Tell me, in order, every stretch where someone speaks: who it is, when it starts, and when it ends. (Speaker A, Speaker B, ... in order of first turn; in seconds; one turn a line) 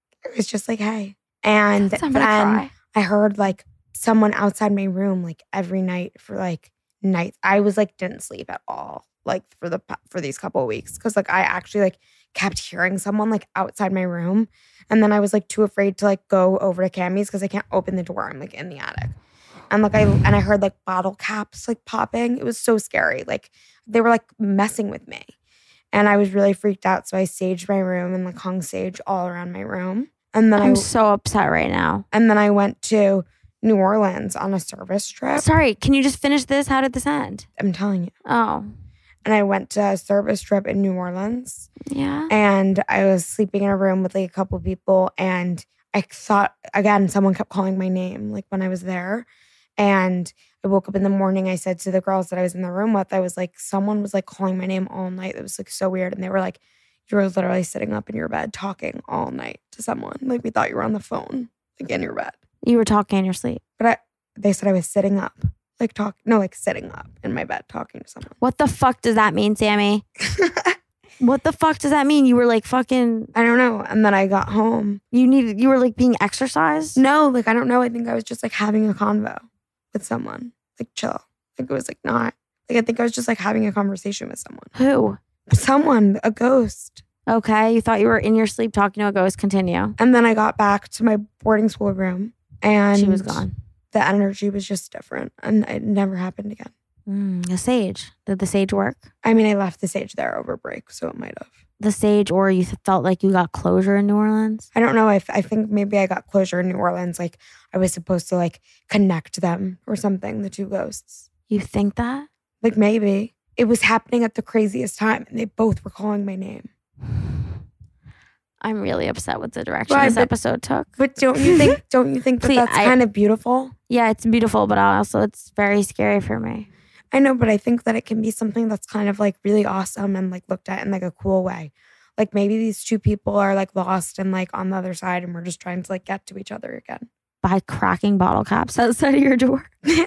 Speaker A: 0.2-19.1
Speaker B: 1.9-2.7
Speaker A: 19.7-25.3
Speaker A: 25.9-30.9
Speaker B: 30.6-32.0
Speaker A: 32.1-35.5
Speaker B: 35.3-37.5
Speaker A: 37.6-38.1
Speaker B: 38.2-38.7
Speaker A: 39.2-41.7
Speaker B: 41.9-42.3
Speaker A: 42.3-49.3
Speaker A: 49.8-62.3
Speaker B: 62.6-63.6
Speaker A: 63.8-68.3
Speaker B: 68.4-70.0
Speaker A: 70.2-70.7
Speaker B: 71.2-73.3
Speaker A: 73.3-75.0
Speaker B: 75.1-77.0
Speaker A: 77.0-84.7
Speaker B: 84.7-85.2
Speaker A: 85.5-87.0
Speaker B: 87.3-90.0
Speaker A: 90.0-96.7
Speaker B: 92.9-93.5
Speaker B: 97.1-99.0
Speaker A: 99.2-101.5
Speaker B: 101.8-104.7
Speaker A: 104.7-111.3
Speaker B: 111.5-112.3
Speaker A: 112.6-116.7
Speaker B: 118.6-120.9
Speaker A: 119.9-120.3
Speaker A: 121.0-123.7
Speaker B: 121.4-121.7
Speaker B: 122.4-123.0
Speaker B: 123.9-126.7
Speaker A: 127.1-137.1
Speaker B: 137.4-139.7